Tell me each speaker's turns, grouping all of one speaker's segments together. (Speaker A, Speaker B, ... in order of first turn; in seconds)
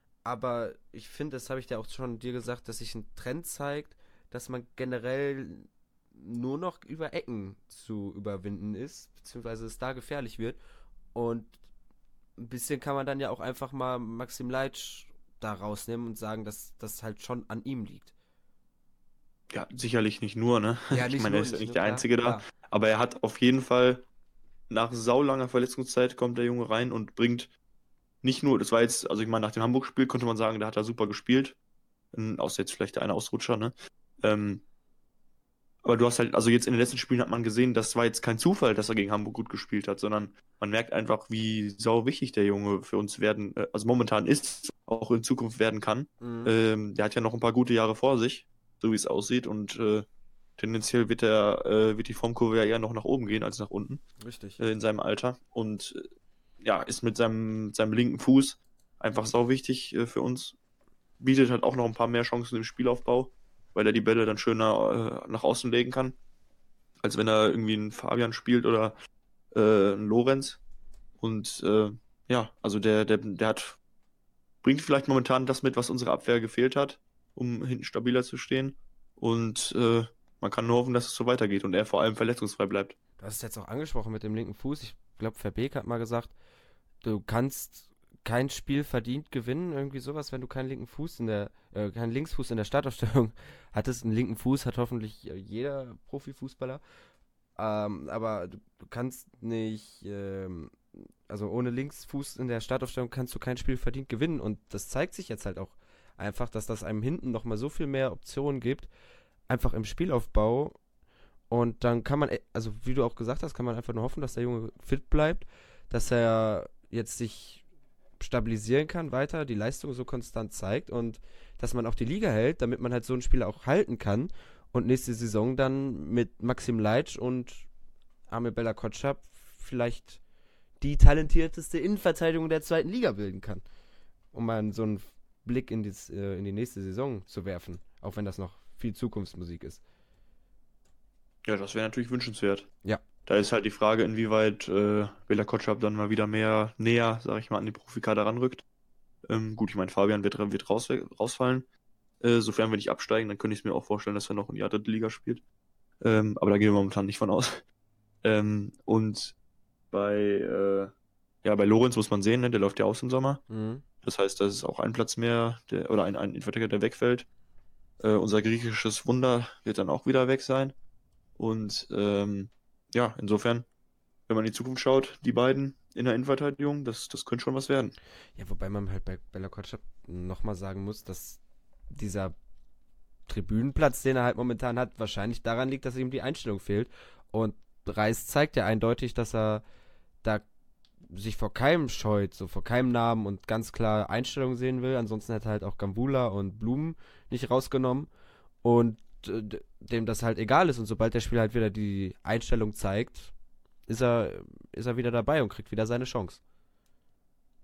Speaker A: 0.2-10.6, 11.1-11.5, 12.4-18.1, 20.9-22.5, 46.2-46.5, 54.2-54.6, 83.2-86.3, 87.0-96.8, 97.6-108.9, 109.5-110.8, 111.5-117.6, 118.2-127.7, 128.3-130.2, 130.8-133.6, 134.3-139.8, 163.5-163.8, 178.4-181.4, 181.9-182.3, 183.3-189.6, 191.1-198.1, 198.6-203.3, 203.9-206.4
Speaker B: 19.5-24.1, 24.7-27.5, 28.2-31.6, 32.1-34.6, 35.8-50.1, 50.6-54.0, 54.6-56.0, 56.6-60.6, 61.2-66.2, 67.0-68.9, 69.5-70.6, 71.2-73.8, 74.6-83.0, 141.4-142.7, 143.3-148.6, 149.3-151.7, 152.2-155.4, 156.0-157.6, 158.2-159.4, 159.9-160.9, 161.4-163.4, 164.0-167.3, 168.0-170.8, 171.4-173.7, 174.3-177.9